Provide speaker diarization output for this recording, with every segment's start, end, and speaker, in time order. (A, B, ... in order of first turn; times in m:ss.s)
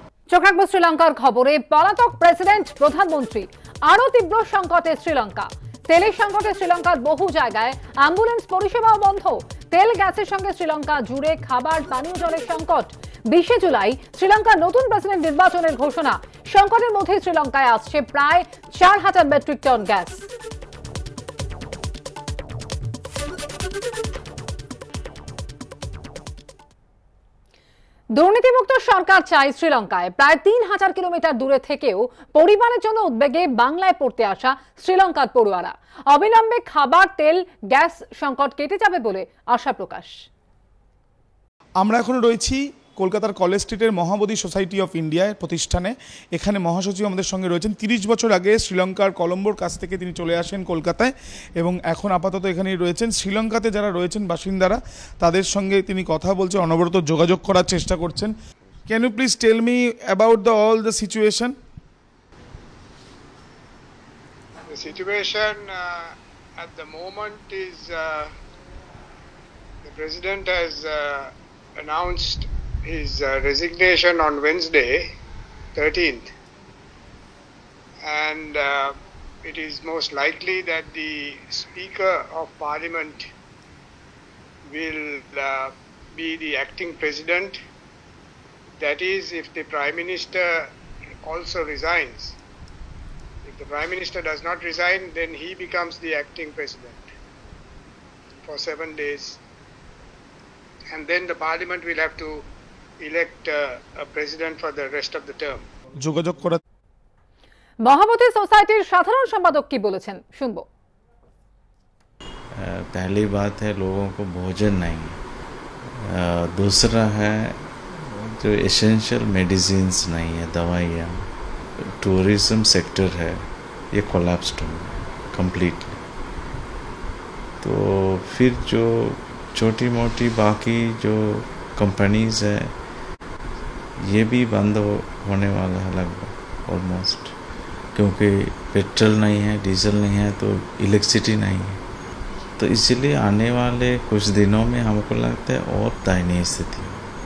0:00.3-0:20.2 A
0:28.1-0:40.2 A
0:41.8-0:58.3 B
0:58.9-1:01.6 B
1:04.7-1:06.0 C
1:06.6-1:08.3 C
1:09.8-1:15.0 C
1:15.8-1:16.3 C
1:18.0-1:18.9 C
1:19.4-1:23.2 C
1:24.7-1:27.6 C
1:28.8-1:30.6 C
1:31.2-1:32.3 C
1:33.4-1:37.0 C
1:38.4-1:39.4 C
1:40.9-1:42.4 C
1:43.0-1:45.6 C
1:46.0-1:46.6 B
1:47.8-1:50.6 A
1:52.6-1:55.2 D
1:56.1-1:57.6 D
1:58.2-2:01.2 D
2:02.0-2:06.0 D
2:07.6-2:12.7 D
2:14.0-2:17.3 D
2:17.9-2:21.8 D
2:22.6-2:27.0 D